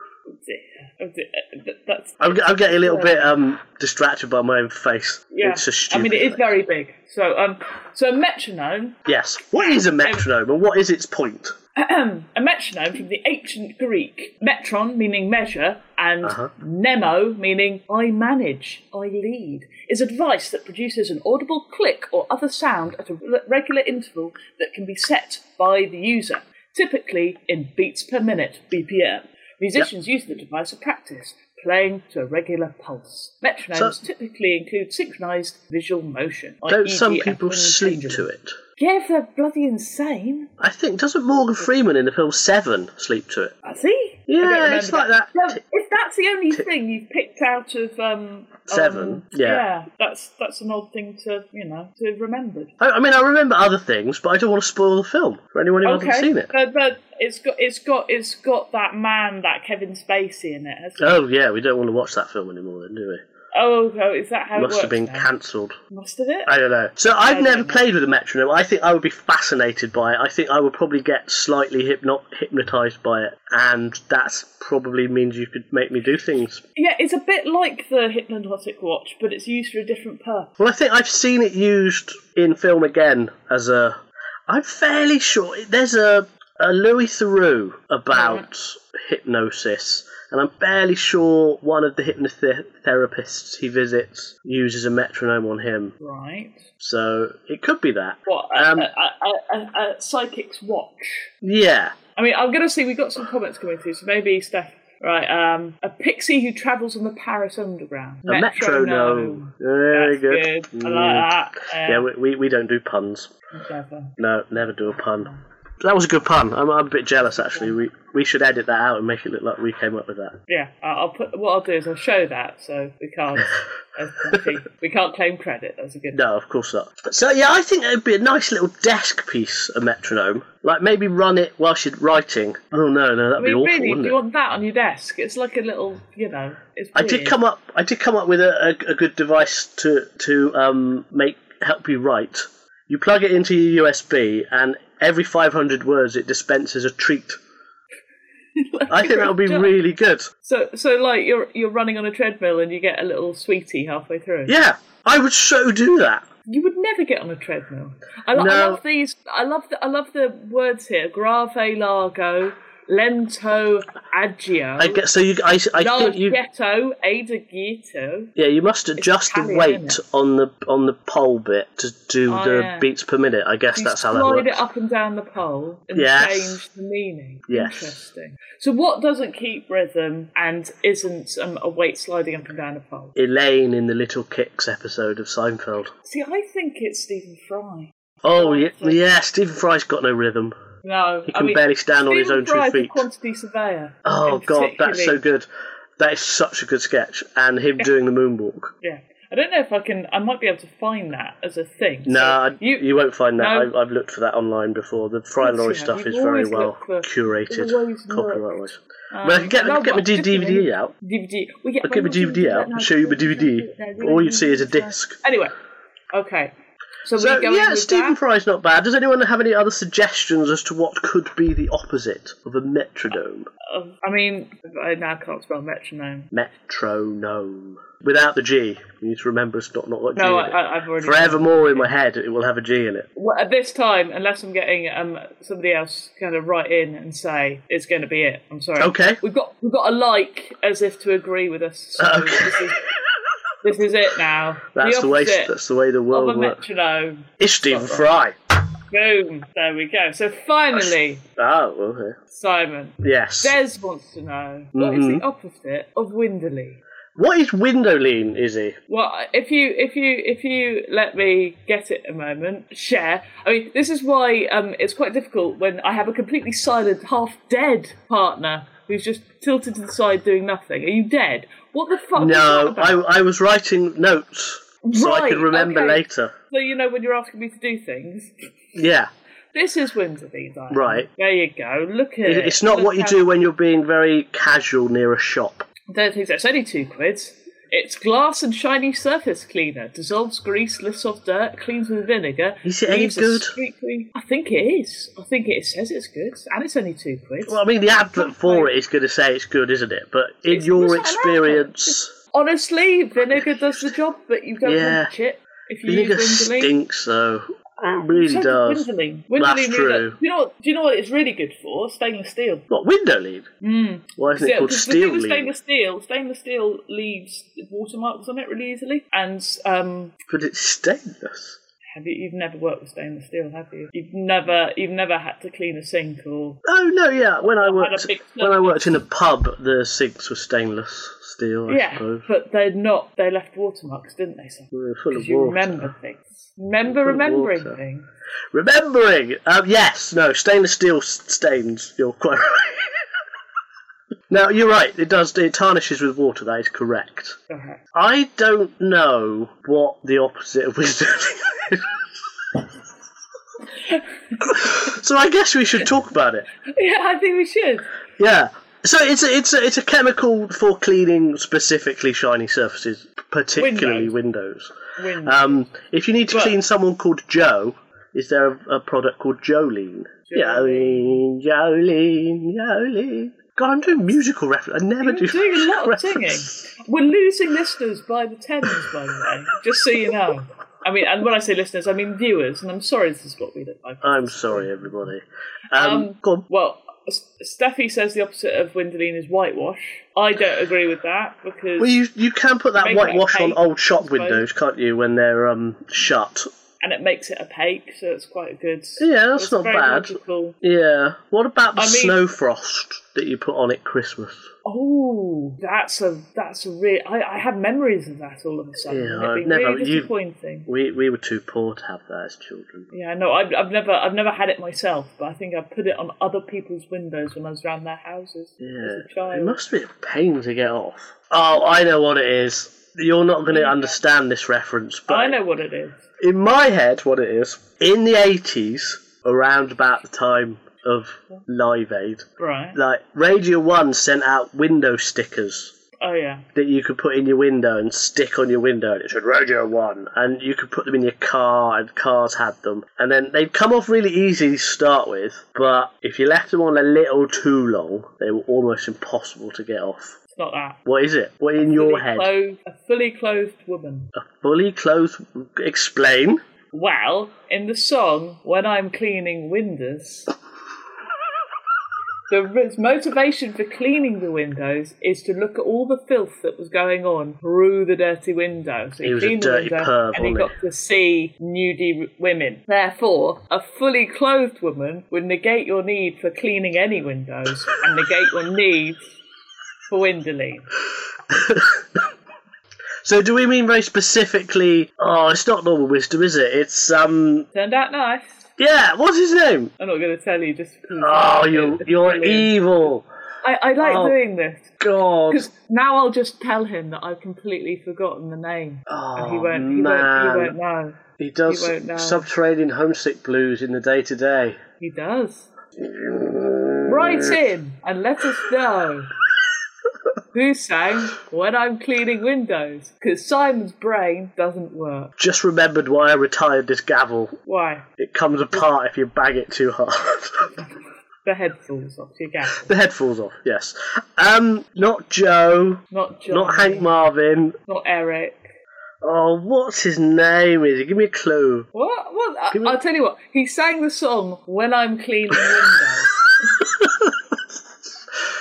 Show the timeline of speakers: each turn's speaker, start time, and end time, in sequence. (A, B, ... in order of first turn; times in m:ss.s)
0:00.3-0:03.3 A
0:02.2-0:06.5 B
0:05.3-0:09.0 A
0:09.0-0:11.5 B
0:09.6-0:10.3 A
0:11.8-0:38.2 A
0:16.2-0:16.5 B
0:36.7-0:38.5 B
0:38.8-0:40.5 A
0:40.6-0:43.5 B
0:43.6-0:52.7 A
0:44.3-0:45.6 B
0:48.7-0:49.6 B
0:52.8-0:56.5 B
0:55.8-1:01.2 A
1:01.0-1:03.2 B
1:03.5-1:05.3 A
1:04.6-1:05.8 B
1:05.9-1:06.5 A
1:06.4-1:16.6 B
1:07.1-1:07.8 A
1:16.7-1:20.5 A
1:20.6-1:24.0 B
1:24.5-1:35.9 B
1:28.1-1:28.4 A
1:36.0-1:36.7 A
1:36.8-1:38.9 B
1:38.2-1:41.3 A
1:41.4-1:41.9 B
1:42.2-1:52.1 A
1:48.2-1:53.3 B
1:53.5-1:54.1 A
1:54.2-2:00.4 B
1:54.9-1:55.4 A
2:00.5-2:06.2 A
2:06.1-2:14.2 B
2:13.4-2:17.4 A
2:16.9-2:27.4 B
2:28.6-2:29.7 A
2:28.9-2:30.3 B
2:30.4-2:34.5 A
2:34.5-2:36.2 B
2:36.5-2:45.0 A
2:38.3-2:38.8 B
2:44.8-2:46.4 B
2:45.7-2:48.3 A
2:48.4-2:54.6 B
2:49.0-2:50.0 A
2:52.3-2:52.9 A
2:53.7-3:03.1 A
2:55.9-2:56.6 B
2:57.5-2:58.0 B
3:03.2-3:05.9 B
3:06.0-3:09.0 A
3:08.2-3:10.5 B
3:10.8-3:15.2 A
3:11.3-3:13.0 B
3:14.0-3:15.5 B
3:16.0-3:18.7 B
3:18.8-3:23.7 A
3:22.0-3:30.9 B
3:25.4-3:28.6 A
3:29.1-3:35.5 A
3:31.8-3:35.2 B
3:36.1-3:36.5 A
3:37.0-3:38.2 A
3:37.2-3:43.5 B
3:43.7-3:46.3 A
3:46.3-3:53.0 B
3:50.2-3:51.9 A
3:53.2-4:02.8 A
3:58.8-3:59.2 B
4:02.0-4:02.7 B
4:03.6-4:05.5 A
4:04.7-4:06.6 B
4:06.1-4:08.2 A
4:07.4-4:08.3 B
4:08.9-4:11.2 A
4:10.7-4:12.2 B
4:12.3-4:16.8 A
4:13.0-4:13.6 B
4:14.7-4:15.2 B
4:17.2-4:18.8 B
4:18.9-4:33.0 A
4:32.1-4:36.3 B
4:34.8-4:38.3 A
4:38.7-4:39.1 B
4:39.5-4:43.2 A
4:40.7-4:41.1 B
4:42.2-4:45.7 B
4:45.9-4:57.6 A
4:52.6-4:53.6 B
4:57.4-5:02.1 B
4:58.1-4:58.7 A
5:00.5-5:06.7 A
5:04.6-5:05.1 B
5:05.8-5:10.2 B
5:08.1-5:12.6 A
5:12.7-5:13.5 B
5:13.6-5:20.1 A
5:14.2-5:15.5 B
5:20.3-5:21.6 B
5:21.9-5:26.6 A
5:26.6-5:32.2 B
5:27.4-5:28.9 A
5:31.7-5:38.0 A
5:34.7-5:35.9 B
5:36.8-5:37.8 B
5:38.5-5:43.0 B
5:44.3-5:47.4 B
5:47.5-5:47.8 A
5:47.9-5:52.0 B
5:53.9-5:54.7 A
5:54.4-5:56.5 B
5:56.7-5:57.9 A
5:58.2-6:16.6 B
6:03.6-6:04.1 A
6:05.0-6:05.7 A
6:06.3-6:06.5 A
6:10.3-6:11.2 A
6:15.0-6:25.1 A
6:24.0-6:26.4 B
6:25.7-6:31.9 A
6:31.8-6:36.4 B
6:32.8-6:34.4 A
6:36.8-6:40.5 A
6:39.0-6:44.4 B
6:41.8-6:42.2 A
6:44.6-6:50.7 A
6:48.9-6:50.1 B
6:50.7-6:52.9 B
6:52.9-6:59.6 A
6:58.6-7:05.4 B
7:03.5-7:04.0 A
7:05.1-7:06.0 A
7:06.2-7:15.7 B
7:12.4-7:12.8 A
7:16.0-7:16.4 A
7:16.5-7:30.2 B
7:30.3-7:30.8 A
7:30.8-7:32.3 B
7:31.6-7:34.1 A
7:34.1-7:36.4 B
7:36.7-7:40.3 A
7:42.3-7:59.0 A
7:49.0-7:50.5 B
7:59.9-8:00.6 A
8:01.3-8:01.7 B
8:03.0-8:07.5 B
8:07.5-8:08.5 A
8:08.6-8:09.7 B
8:09.8-8:12.5 A
8:11.0-8:13.0 B
8:13.4-8:14.7 A
8:13.8-8:14.2 B
8:14.8-8:15.5 B
8:15.3-8:22.3 A
8:18.9-8:20.5 B
8:21.2-8:24.6 B
8:24.8-8:25.5 A
8:25.8-8:27.4 B
8:26.8-8:29.1 A
8:30.3-8:35.1 A
8:35.2-8:37.3 B
8:37.4-8:37.9 A
8:38.0-8:40.6 B
8:41.2-8:42.7 A
8:42.6-8:47.5 B
8:45.9-8:47.0 A
8:47.7-8:48.5 A
8:49.0-8:51.7 B
8:51.7-8:56.1 A
8:52.5-8:52.8 B
8:56.6-8:57.1 B